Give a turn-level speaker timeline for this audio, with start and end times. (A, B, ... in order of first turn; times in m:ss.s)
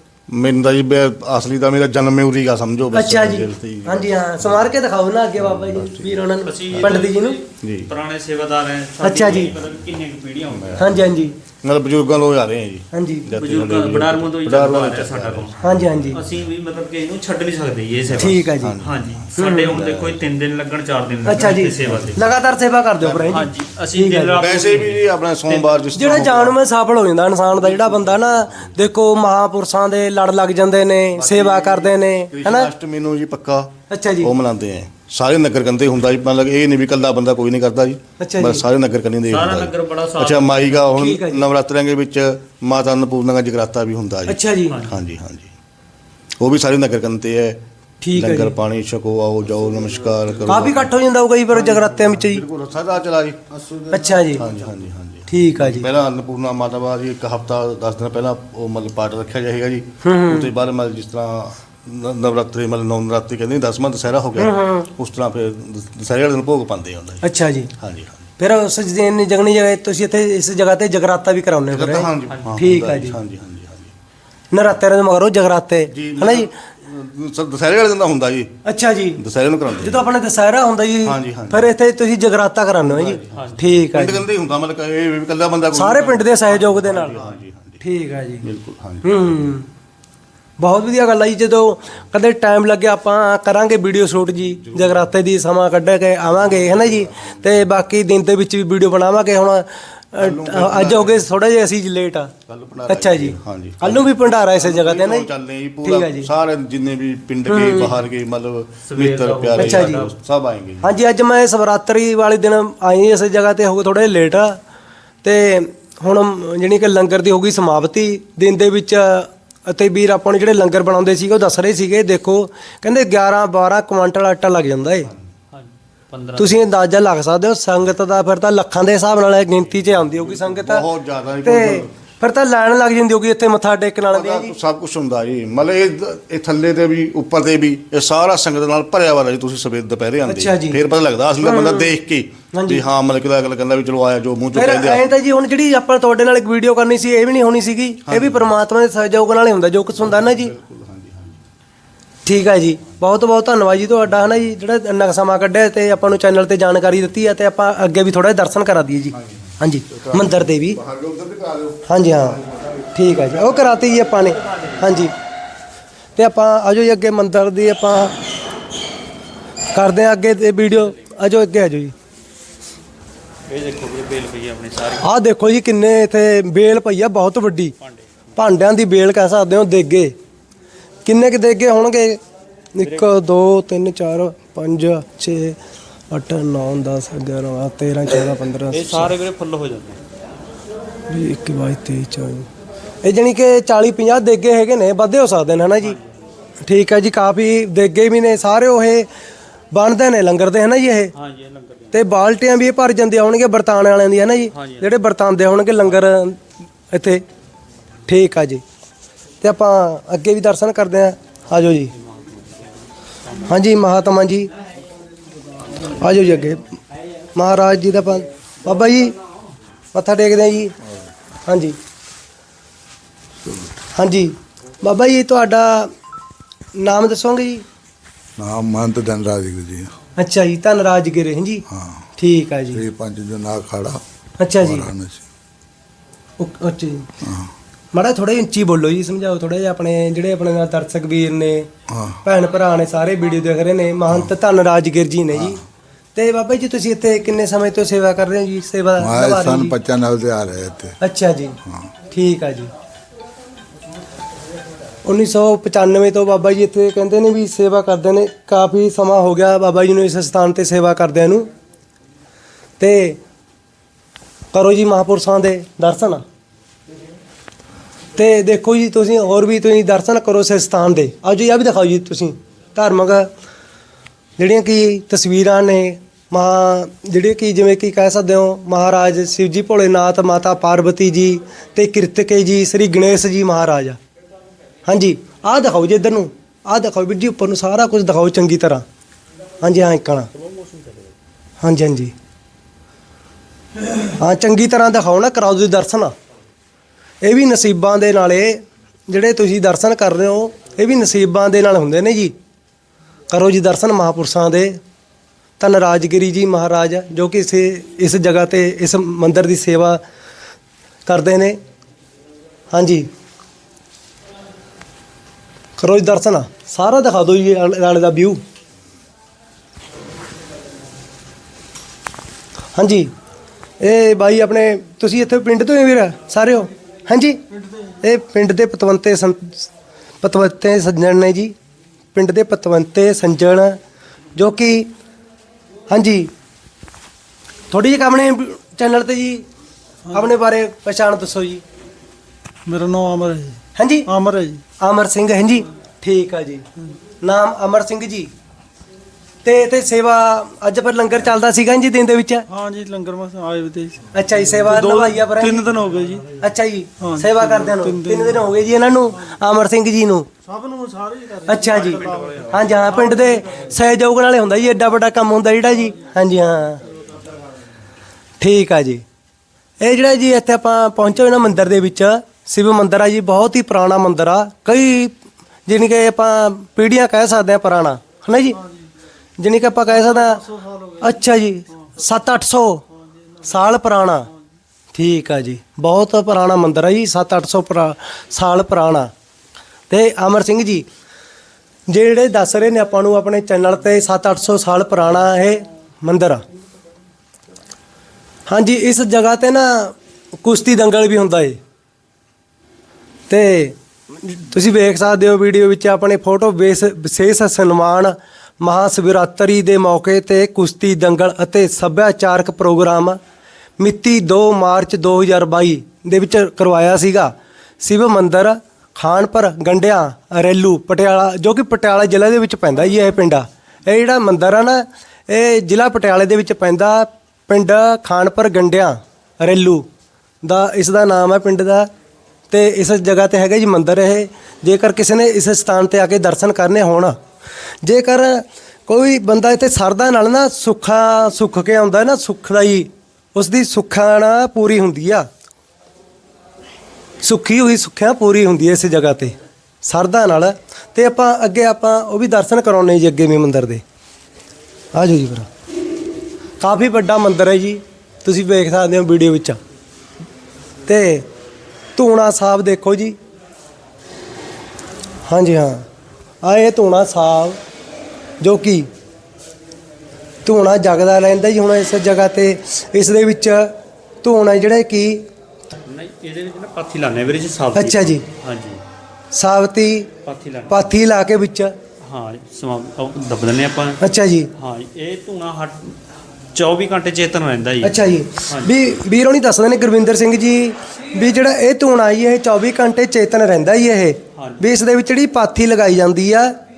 0:00.3-0:04.8 A
0:02.9-0:07.4 B
0:05.4-0:07.0 A
0:06.4-0:11.0 C
0:07.6-0:07.9 A
0:09.0-0:09.5 B
0:10.5-0:11.0 A
0:10.8-0:11.4 B
0:11.6-0:16.4 A
0:12.9-0:13.3 B
0:13.4-0:15.6 C
0:15.6-0:16.2 B
0:16.1-0:22.2 C
0:18.1-0:20.2 A
0:18.2-0:18.7 B
0:19.4-0:19.7 B
0:21.2-0:24.4 B
0:21.4-0:22.2 A
0:23.0-0:23.4 A
0:23.3-0:26.1 C
0:24.4-0:26.6 A
0:25.9-0:32.7 B
0:27.6-0:28.7 A
0:31.1-0:45.5 A
0:33.9-0:34.3 B
0:38.2-0:38.6 B
0:39.3-0:40.8 C
0:40.9-0:41.4 B
0:44.3-0:44.8 B
0:44.7-0:45.0 C
0:46.4-0:47.6 A
0:48.0-0:48.5 B
0:48.1-0:50.9 A
0:50.5-0:52.4 B
0:51.5-0:53.4 A
0:53.9-0:54.5 B
0:54.3-1:07.2 A
0:55.3-0:55.9 B
1:00.0-1:00.5 B
1:04.4-1:04.9 B
1:07.2-1:07.7 B
1:07.8-1:08.2 A
1:08.4-1:13.2 B
1:11.7-1:13.9 A
1:12.3-1:12.5 C
1:14.5-1:16.5 B
1:15.9-1:18.5 A
1:18.6-1:19.2 B
1:19.2-1:20.0 A
1:19.8-1:24.2 B
1:21.0-1:21.7 A
1:22.8-1:27.8 A
1:23.2-1:24.0 C
1:25.7-1:27.2 B
1:27.0-1:27.3 C
1:27.8-1:28.5 B
1:28.4-1:29.5 A
1:29.0-1:29.7 B
1:30.6-1:42.3 B
1:34.7-1:35.0 A
1:36.5-1:37.3 A
1:40.2-1:41.2 A
1:42.5-1:50.9 A
1:42.9-1:45.3 B
1:45.8-1:46.3 B
1:47.5-1:48.0 B
1:48.8-1:50.1 C
1:49.6-1:50.0 B
1:50.8-1:54.6 B
1:55.2-2:05.1 B
2:05.5-2:06.7 C
2:06.4-2:10.9 B
2:09.8-2:11.9 A
2:11.4-2:14.5 B
2:14.1-2:25.0 A
2:20.2-2:20.8 B
2:21.4-2:21.9 B
2:22.5-2:22.8 B
2:24.5-2:30.5 B
2:28.0-2:28.5 A
2:30.0-2:31.4 A
2:32.2-2:40.8 B
2:40.0-2:41.8 A
2:41.8-2:42.4 B
2:42.9-2:45.1 B
2:43.6-2:45.1 C
2:46.2-2:48.1 B
2:49.7-2:51.9 B
2:53.5-2:55.1 C
2:55.0-2:57.7 B
2:58.4-3:00.1 B
3:01.0-3:02.2 B
3:02.7-3:05.6 B
3:02.8-3:03.1 C
3:06.1-3:09.1 B
3:08.7-3:10.0 C
3:11.1-3:12.5 B
3:13.0-3:16.0 B
3:15.8-3:16.2 C
3:16.6-3:19.1 B
3:19.7-3:21.1 B
3:21.2-3:22.0 C
3:21.9-3:26.4 B
3:24.5-3:24.9 C
3:26.9-3:27.2 B
3:28.1-3:28.6 B
3:29.4-3:31.9 B
3:32.0-3:32.6 C
3:33.4-3:34.5 B
3:35.9-3:36.6 B
3:37.3-3:39.2 B
3:39.9-3:40.7 B
3:41.4-3:41.8 B
3:44.0-3:45.9 B
3:46.8-3:47.6 B
3:48.4-3:50.0 D
3:50.2-3:51.6 B
3:51.7-3:52.1 D
3:52.2-3:52.8 B
3:52.7-3:54.0 D
3:54.4-3:54.9 B
3:54.6-3:55.2 D
3:56.4-3:57.1 B
3:57.2-3:57.5 D
3:57.9-4:01.7 B
4:01.9-4:02.2 D
4:02.2-4:05.6 B
4:06.1-4:09.8 B
4:09.0-4:11.0 D
4:11.0-4:11.6 B
4:12.1-4:12.7 B
4:15.0-4:21.5 B
4:22.8-4:23.2 B
4:24.5-4:26.2 B
4:28.2-4:33.3 B
4:34.4-4:44.0 B
4:44.9-4:48.8 B
4:49.6-4:50.3 B
4:50.4-4:51.1 C
4:51.6-4:52.1 B
4:54.0-4:56.1 B
4:57.2-5:02.3 B
5:03.3-5:04.8 B
5:05.6-5:10.0 B
5:11.0-5:11.6 B
5:12.7-5:13.1 B
5:15.8-5:18.4 B
5:22.8-5:23.1 B
5:23.8-5:27.4 B
5:28.0-5:29.7 B
5:30.2-5:31.5 B
5:32.1-5:33.8 B
5:34.4-5:34.9 B
5:35.9-5:36.3 B
5:37.7-5:39.4 B
5:40.1-5:41.6 B
5:42.6-5:44.6 E
5:43.7-5:44.1 B
5:44.8-5:46.6 B
5:47.2-5:48.3 B
5:49.4-5:52.5 B
5:52.5-5:54.0 E
5:54.1-5:55.7 B
5:54.6-5:56.4 E
5:56.4-6:00.3 B
5:57.0-5:58.3 E
6:00.5-6:01.5 E
6:01.4-6:06.8 B
6:08.4-6:09.0 B
6:09.8-6:15.1 B
6:15.6-6:18.6 B
6:19.4-6:22.8 B
6:23.4-6:24.3 B
6:24.9-6:29.1 B
6:29.9-6:30.9 B
6:31.9-6:36.4 B
6:38.5-6:41.6 B
6:43.3-6:53.2 B
6:53.8-7:09.9 B
7:10.4-7:11.9 B
7:12.5-7:17.2 B
7:17.8-7:25.3 B
7:27.2-7:33.8 B
7:34.9-7:35.5 B
7:36.6-7:39.6 B
7:40.8-7:41.3 B
7:42.0-7:43.2 B
7:45.2-7:45.8 B
7:46.4-7:47.6 B
7:48.4-7:48.9 B
7:50.4-7:55.2 B
7:55.7-7:58.8 C
7:57.7-7:58.2 B
7:59.3-8:00.1 B
8:00.2-8:00.8 C
8:00.7-8:01.7 B
8:02.0-8:04.0 C
8:04.0-8:04.5 B
8:04.6-8:06.0 C
8:06.5-8:08.8 C
8:07.8-8:16.5 B
8:14.4-8:14.6 C